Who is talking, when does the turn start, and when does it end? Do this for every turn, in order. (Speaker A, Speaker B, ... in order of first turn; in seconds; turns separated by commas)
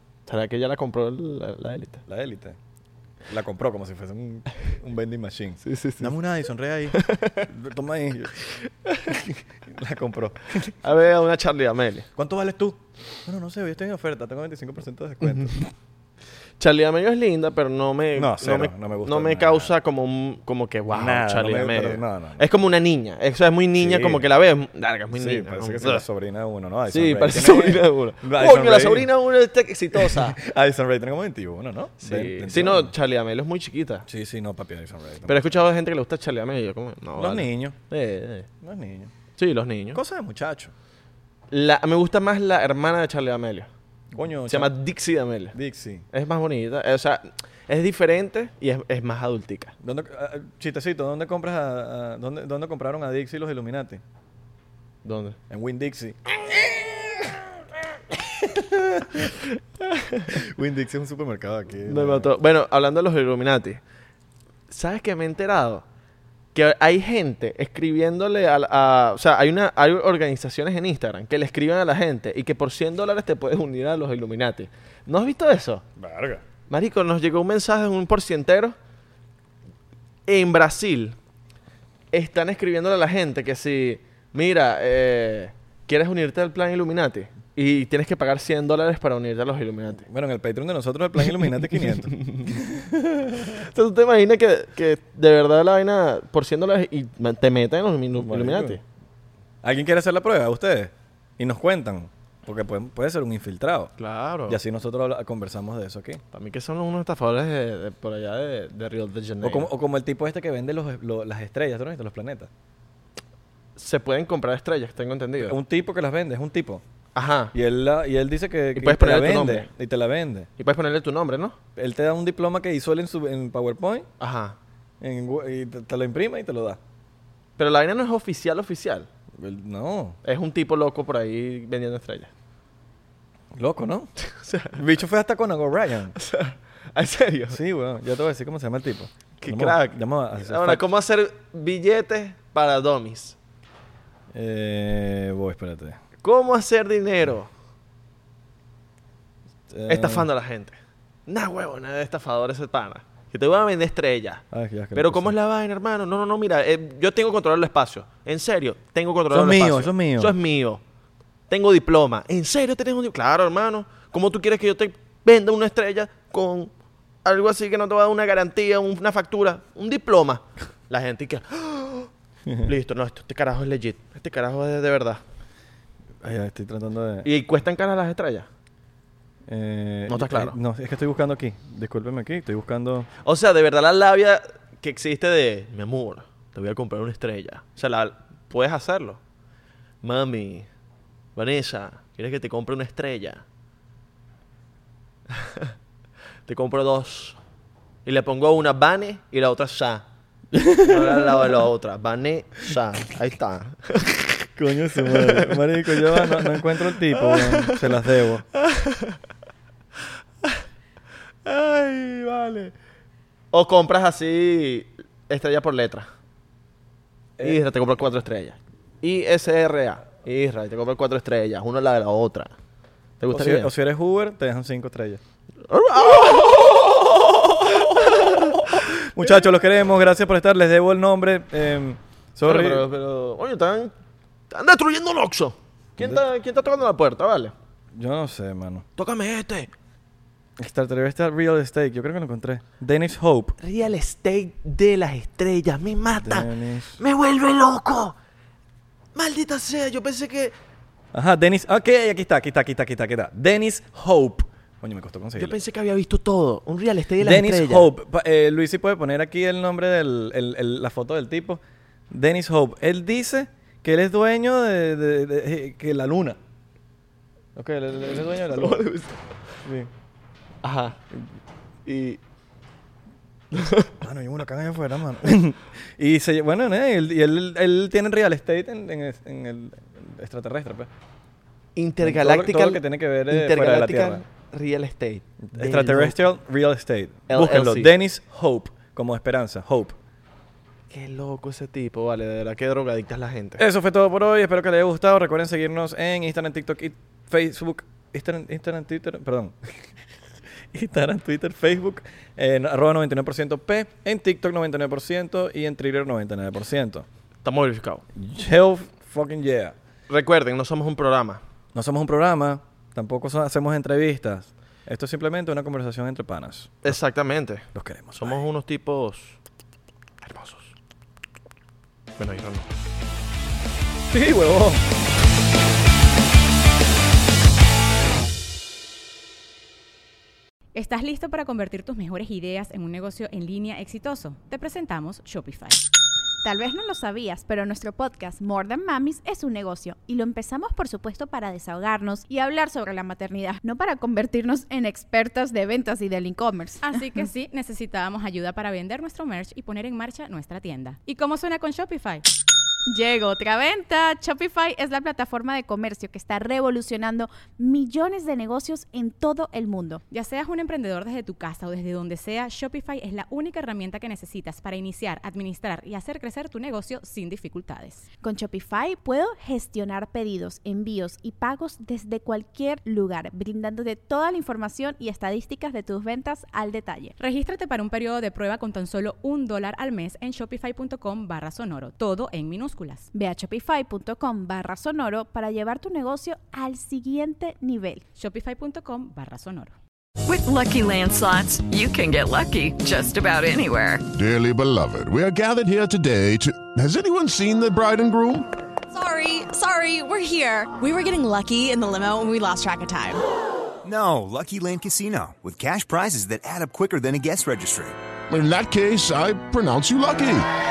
Speaker A: 0.3-2.0, Speaker B: 2.1-2.6, Speaker B: 3.3-8.4, Speaker A: 5.7-6.1, Speaker A: 6.9-7.4, Speaker B: 9.1-10.7, Speaker A: 10.7-12.1, Speaker B: 12.2-15.7, Speaker A: 15.2-15.5, Speaker A: 16.6-26.0, Speaker B: 18.1-19.7, Speaker B: 20.9-22.4, Speaker B: 23.8-24.2, Speaker B: 25.1-29.1, Speaker A: 26.9-30.4, Speaker B: 29.9-32.9, Speaker A: 32.0-34.0, Speaker B: 34.0-35.5, Speaker A: 35.3-38.5, Speaker B: 37.2-37.8, Speaker B: 38.6-39.1, Speaker A: 39.4-40.0, Speaker B: 39.9-40.7, Speaker A: 41.5-43.7, Speaker B: 44.1-44.7, Speaker A: 44.5-45.6, Speaker B: 45.5-46.0, Speaker A: 46.1-49.7, Speaker B: 49.8-54.0, Speaker A: 55.0-55.4, Speaker B: 55.5-57.6, Speaker B: 58.1-59.3, Speaker A: 59.8-60.4, Speaker B: 60.3-62.3, Speaker A: 61.9-63.8, Speaker A: 64.7-65.8, Speaker A: 66.5-75.8, Speaker B: 76.0-76.4, Speaker A: 76.7-78.8, Speaker A: 80.3-81.2, Speaker A: 82.1-90.0, Speaker B: 90.0-93.7, Speaker A: 92.0-92.5, Speaker A: 93.5-98.8, Speaker B: 98.2-98.8, Speaker B: 99.6-103.9, Speaker A: 104.0-104.6, Speaker B: 104.5-106.2, Speaker A: 106.3-109.7, Speaker B: 109.4-112.5, Speaker A: 113.8-115.6, Speaker B: 115.4-116.8, Speaker A: 117.1-117.5, Speaker B: 117.5-120.5, Speaker A: 118.8-119.7, Speaker A: 120.6-121.6, Speaker B: 121.8-124.1, Speaker A: 124.2-124.6, Speaker B: 125.0-126.8, Speaker A: 127.6-129.1, Speaker B: 129.4-130.2, Speaker A: 130.2-132.3, Speaker B: 133.5-134.1, Speaker A: 134.4-134.8, Speaker B: 134.7-136.2, Speaker A: 136.2-137.6, Speaker B: 137.5-140.8, Speaker A: 139.4-143.3, Speaker B: 144.3-146.0, Speaker A: 146.2-147.5, Speaker B: 149.7-150.3, Speaker A: 149.9-150.7, Speaker A: 151.3-160.8, Speaker B: 154.5-155.3, Speaker B: 159.3-160.3, Speaker A: 161.5-166.7, Speaker A: 167.2-172.1, Speaker A: 172.6-175.2, Speaker B: 176.2-177.3, Speaker A: 177.2-178.5, Speaker B: 179.5-183.1, Speaker A: 180.1-180.6, Speaker A: 183.2-189.2, Speaker A: 190.0-190.7, Speaker A: 191.3-193.4, Speaker A: 196.5-197.4, Speaker A: 198.0-200.0, Speaker B: 200.5-201.6, Speaker A: 200.7-204.4, Speaker B: 204.6-208.4, Speaker A: 205.0-208.0, Speaker A: 208.7-209.1, Speaker A: 211.4-212.7, Speaker A: 213.5-216.1, Speaker A: 217.4-222.5, Speaker A: 223.2-223.7, Speaker B: 223.3-225.2, Speaker A: 225.7-227.1, Speaker B: 226.1-232.8, Speaker A: 227.6-228.9, Speaker A: 232.4-233.9, Speaker A: 234.5-237.5, Speaker B: 237.9-238.8, Speaker A: 239.0-239.7, Speaker B: 240.6-243.6, Speaker A: 243.6-248.1, Speaker B: 246.2-247.0, Speaker A: 249.1-250.5, Speaker B: 251.1-255.6, Speaker A: 255.4-257.9, Speaker B: 257.2-266.4, Speaker B: 267.6-268.9, Speaker A: 268.4-269.2, Speaker B: 269.6-269.9, Speaker A: 270.6-271.1, Speaker A: 271.9-272.2, Speaker A: 273.5-274.0, Speaker B: 274.0-280.9, Speaker A: 281.8-286.2, Speaker B: 282.0-284.2, Speaker B: 285.5-290.0, Speaker A: 287.3-287.9, Speaker A: 290.9-293.6, Speaker B: 293.6-299.8, Speaker B: 300.7-307.1, Speaker A: 307.4-308.0, Speaker B: 308.1-309.8, Speaker A: 310.1-311.4, Speaker B: 311.7-317.0, Speaker A: 316.8-319.4, Speaker B: 317.7-318.4, Speaker A: 320.2-320.7, Speaker A: 322.2-322.6, Speaker B: 324.1-324.8, Speaker C: 330.7-335.8, Speaker D: 336.4-347.0, Speaker C: 346.8-352.2, Speaker D: 352.9-360.0, Speaker C: 360.1-368.1, Speaker D: 368.2-377.1, Speaker C: 377.2-383.1, Speaker D: 383.1-388.0, Speaker C: 388.1-389.7, Speaker E: 390.2-394.1, Speaker F: 394.1-398.5, Speaker G: 398.9-403.2, Speaker H: 403.8-408.0, Speaker F: 408.3-410.5